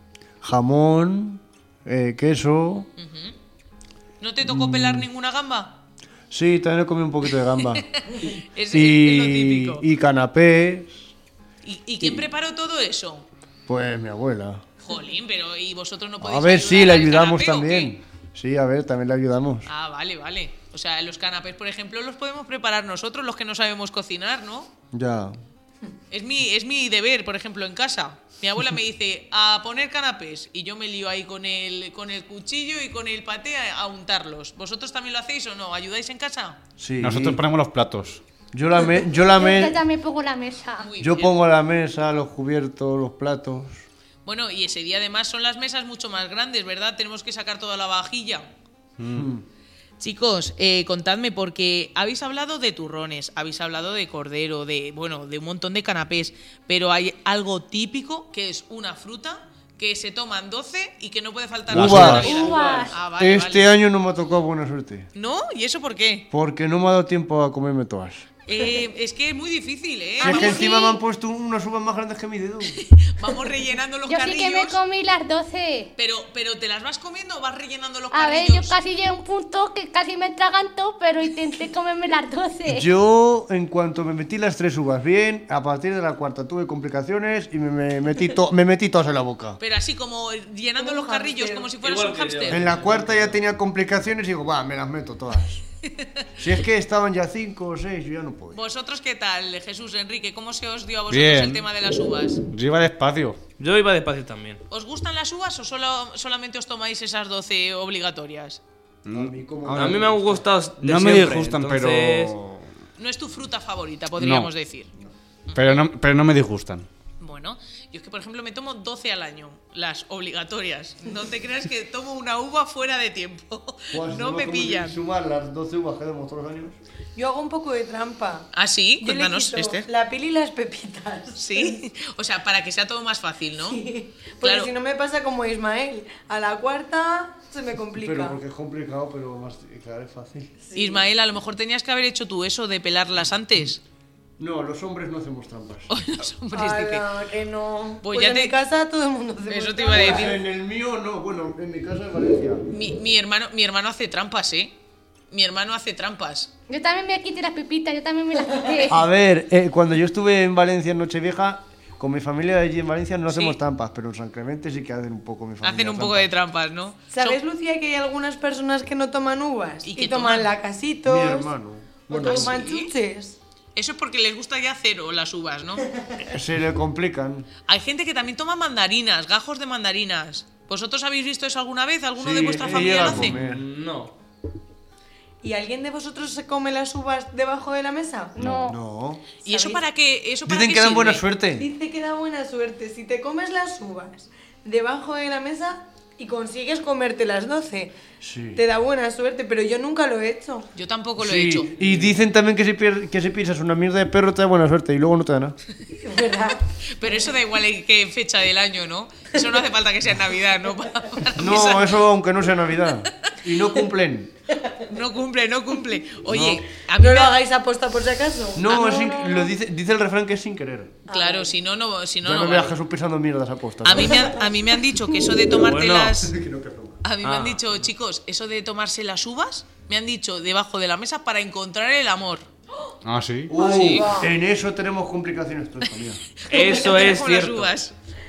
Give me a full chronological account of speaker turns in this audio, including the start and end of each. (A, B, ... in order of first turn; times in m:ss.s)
0:00.4-0:02.9 A
0:03.0-0:03.3 B
0:04.2-0:05.8 B
0:04.4-0:05.1 A
0:06.3-0:07.9 A
0:07.6-0:09.8 B
0:08.7-0:11.1 A
0:11.6-0:13.2 B
0:12.0-0:12.3 A
0:13.7-0:14.6 A
0:14.8-0:17.9 B
0:16.2-0:19.7 A
0:19.7-0:24.7 B
0:24.9-0:25.4 A
0:26.1-0:36.6 B
0:36.8-0:37.4 A
0:37.0-0:38.2 C
0:38.5-0:39.8 A
0:39.3-0:40.9 D
0:40.8-0:41.3 B
0:41.0-0:43.8 A
0:44.2-0:48.5 B
0:49.0-0:49.3 C
0:49.1-0:49.4 A
0:50.0-1:03.7 B
1:01.7-1:02.3 A
1:01.7-1:02.4 C
1:02.1-1:03.0 D
1:02.3-1:02.8 E
1:03.2-1:05.1 A
1:05.1-1:06.2 B
1:06.3-1:08.3 A
1:08.4-1:10.6 B
1:10.2-1:12.8 A
1:10.2-1:11.0 D
1:10.2-1:10.6 E
1:12.8-1:14.8 B
1:14.1-1:15.9 D
1:16.0-1:18.8 B
1:18.1-1:22.9 D
1:22.7-1:29.6 A
1:29.6-1:32.7 B
1:30.8-1:31.7 E
1:31.8-1:33.4 F
1:32.5-1:35.6 A
1:36.4-1:38.6 A
1:38.5-1:42.4 B
1:41.1-1:41.6 C
1:42.5-1:43.4 C
1:43.6-1:44.6 F
1:44.7-1:48.6 B
1:49.0-1:50.1 C
1:49.1-1:50.4 A
1:49.7-1:52.3 F
1:50.8-1:52.7 C
1:53.0-1:54.9 B
1:54.2-1:54.5 C
1:55.5-1:55.8 B
1:55.5-1:56.9 C
1:57.2-2:05.0 B
2:03.9-2:06.8 A
2:07.1-2:08.5 E
2:08.5-2:09.9 B
2:09.0-2:11.8 E
2:11.4-2:13.8 B
2:13.6-2:18.4 E
2:14.4-2:14.7 B
2:17.9-2:20.6 A
2:20.6-2:21.0 E
2:20.8-2:23.8 B
2:24.4-2:25.9 A
2:25.9-2:27.0 B
2:26.5-2:30.4 E
2:28.0-2:28.5 B
2:29.5-2:30.4 B
2:29.9-2:32.6 A
2:32.7-2:34.7 B
2:35.3-2:36.5 B
2:36.7-2:39.0 D
2:38.9-2:46.3 A
2:43.3-2:43.6 B
2:45.6-2:47.4 B
2:47.1-2:51.5 E
2:49.8-2:50.5 B
2:51.0-2:52.6 A
2:52.1-2:53.4 E
2:52.1-2:52.9 B
2:53.8-2:55.9 B
2:56.3-2:57.5 A
2:57.7-3:03.4 B
3:02.2-3:03.6 A
3:02.6-3:04.1 F
3:05.4-3:08.7 E
3:08.4-3:08.8 D
3:08.4-3:09.2 A
3:09.4-3:11.2 B
3:09.4-3:09.8 E
3:10.4-3:11.7 A
3:11.6-3:18.0 E
3:18.2-3:18.6 A
3:18.5-3:20.7 E
3:20.8-3:21.7 B
3:21.2-3:25.6 A
3:26.0-3:27.3 E
3:26.9-3:32.0 B
3:31.3-3:34.3 A
3:34.9-3:37.3 B
3:36.3-3:36.6 A
3:37.0-3:39.5 E
3:38.5-3:41.0 A
3:38.7-3:39.0 B
3:41.1-3:41.5 E
3:41.1-3:42.8 B
3:42.2-3:44.3 A
3:43.8-3:46.3 B
3:43.9-3:45.0 E
3:45.5-3:46.2 F
3:46.2-3:47.0 A
3:47.0-3:52.4 B
3:47.2-3:47.8 F
3:53.0-3:53.5 C
3:53.5-3:56.4 A
3:53.6-3:54.1 B
3:53.6-3:54.3 E
3:56.4-3:57.9 B
3:56.5-3:57.7 F